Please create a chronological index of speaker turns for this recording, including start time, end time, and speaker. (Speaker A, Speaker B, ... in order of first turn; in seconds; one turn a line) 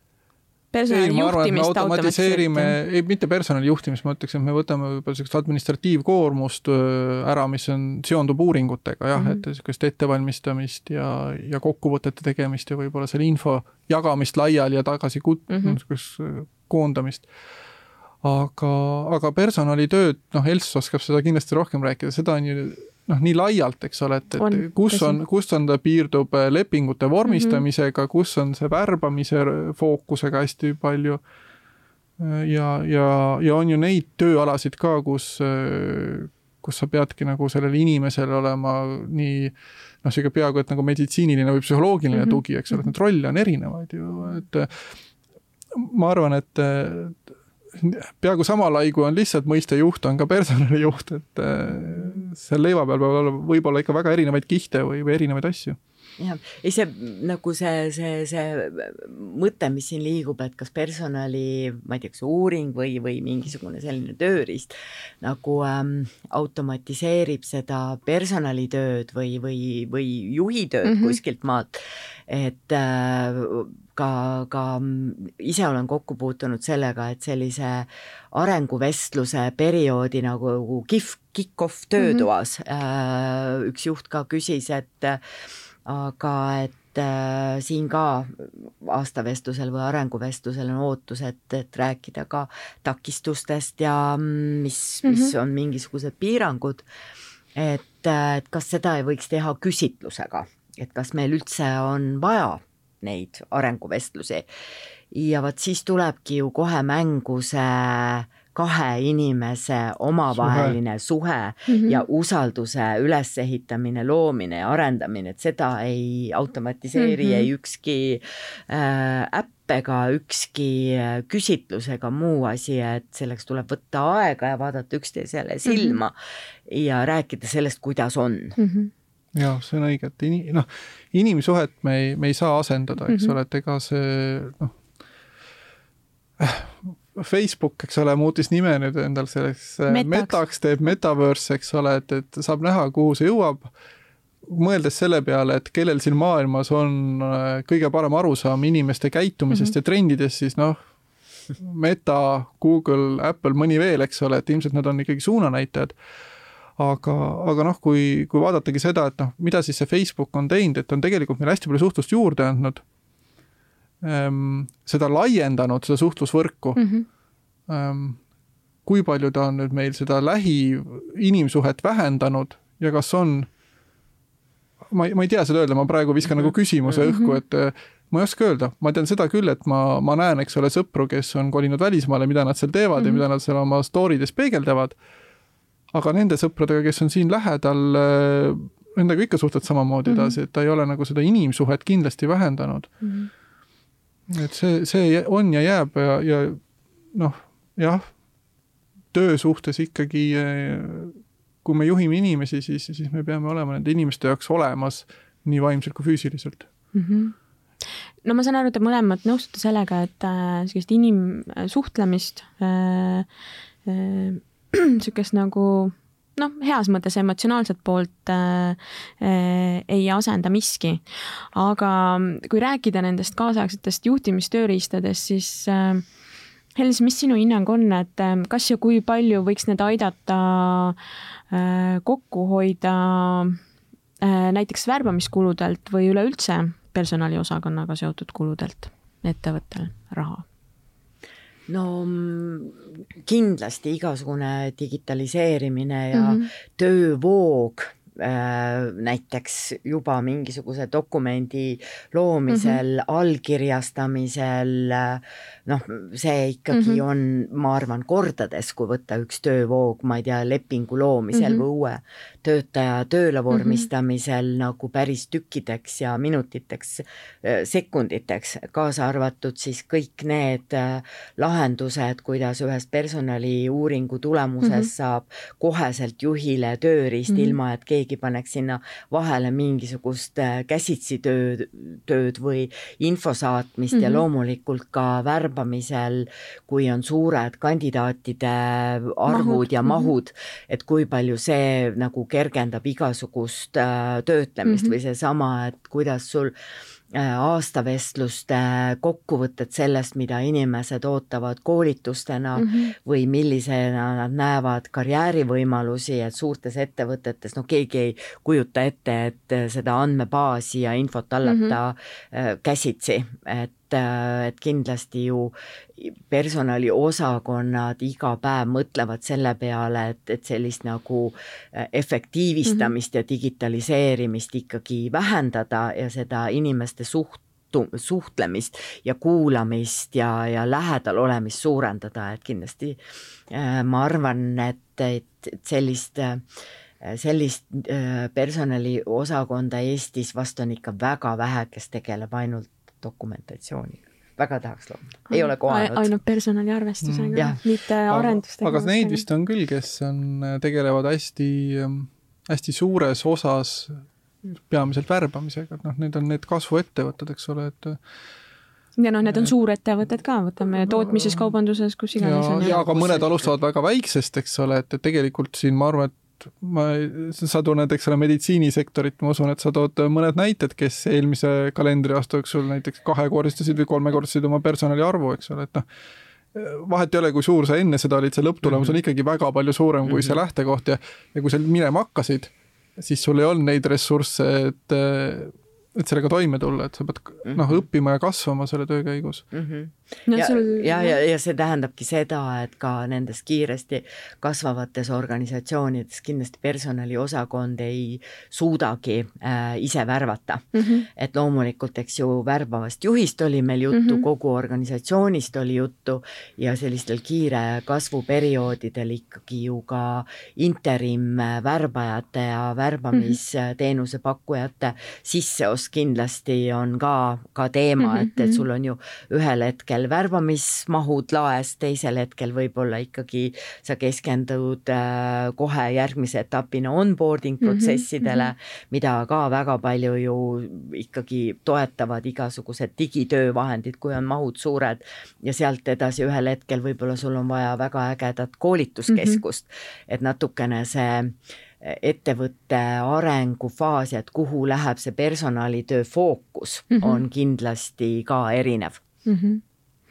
Speaker A: 0.7-2.8
Speaker B: 0.9-17.2
Speaker A: 9.1-9.4
Speaker A: 15.5-15.8
Speaker B: 18.2-31.2
Speaker A: 24.4-25.2
Speaker A: 27.2-27.6
Speaker B: 32.2-44.8
Speaker A: 42.1-42.9
Speaker B: 45.7-47.2
Speaker B: 47.7-55.8
Speaker C: 56.2-85.2
Speaker A: 70.8-71.2
Speaker A: 82.0-82.2
Speaker C: 85.8-96.8
Speaker A: 95.0-95.3
Speaker C: 97.5-104.5
Speaker C: 105.1-126.1
Speaker B: 110.3-110.8
Speaker A: 111.7-112.0
Speaker A: 117.0-117.5
Speaker A: 125.7-126.0
Speaker C: 126.7-128.6
Speaker A: 128.6-128.9
Speaker B: 129.3-134.7
Speaker A: 133.1-133.3
Speaker B: 136.4-143.7
Speaker A: 139.9-140.4
Speaker B: 144.5-150.8
Speaker A: 149.5-149.7
Speaker B: 151.6-155.9
Speaker B: 156.8-162.8
Speaker B: 164.0-166.8
Speaker A: 166.8-167.1
Speaker B: 167.7-168.2
Speaker B: 168.8-173.5
Speaker B: 174.9-184.9
Speaker A: 177.0-177.4
Speaker A: 183.0-183.2
Speaker B: 185.9-192.9
Speaker A: 190.1-190.4
Speaker A: 193.0-193.3
Speaker B: 194.3-196.6
Speaker B: 197.1-198.1
Speaker B: 199.1-206.7
Speaker A: 206.9-207.3
Speaker A: 208.2-213.3
Speaker A: 213.8-226.1
Speaker A: 226.7-230.9
Speaker A: 231.5-233.6
Speaker A: 234.2-240.4
Speaker C: 241.7-296.5
Speaker A: 246.1-246.5
Speaker A: 252.5-252.8
Speaker A: 256.7-257.0
Speaker A: 261.3-261.6
Speaker A: 263.5-263.9
Speaker A: 274.6-274.9
Speaker A: 277.3-277.6
Speaker A: 283.9-284.2
Speaker A: 289.3-290.1
Speaker A: 294.6-294.9
Speaker C: 297.1-336.4
Speaker A: 302.6-302.9
Speaker A: 311.4-311.8
Speaker A: 322.6-322.9
Speaker C: 337.0-346.1
Speaker A: 345.3-349.2
Speaker B: 347.0-347.6
Speaker B: 348.1-358.0
Speaker A: 359.0-362.8
Speaker B: 359.2-359.5
Speaker B: 362.2-375.9
Speaker C: 362.6-363.5
Speaker B: 376.5-389.5
Speaker C: 378.7-378.9
Speaker C: 380.1-380.4
Speaker C: 387.4-387.8
Speaker C: 389.5-449.0
Speaker A: 390.3-391.2
Speaker A: 400.7-401.1
Speaker A: 403.9-404.2
Speaker A: 418.0-418.6
Speaker A: 427.6-428.5
Speaker A: 439.1-439.4
Speaker A: 446.9-447.2
Speaker A: 449.2-449.6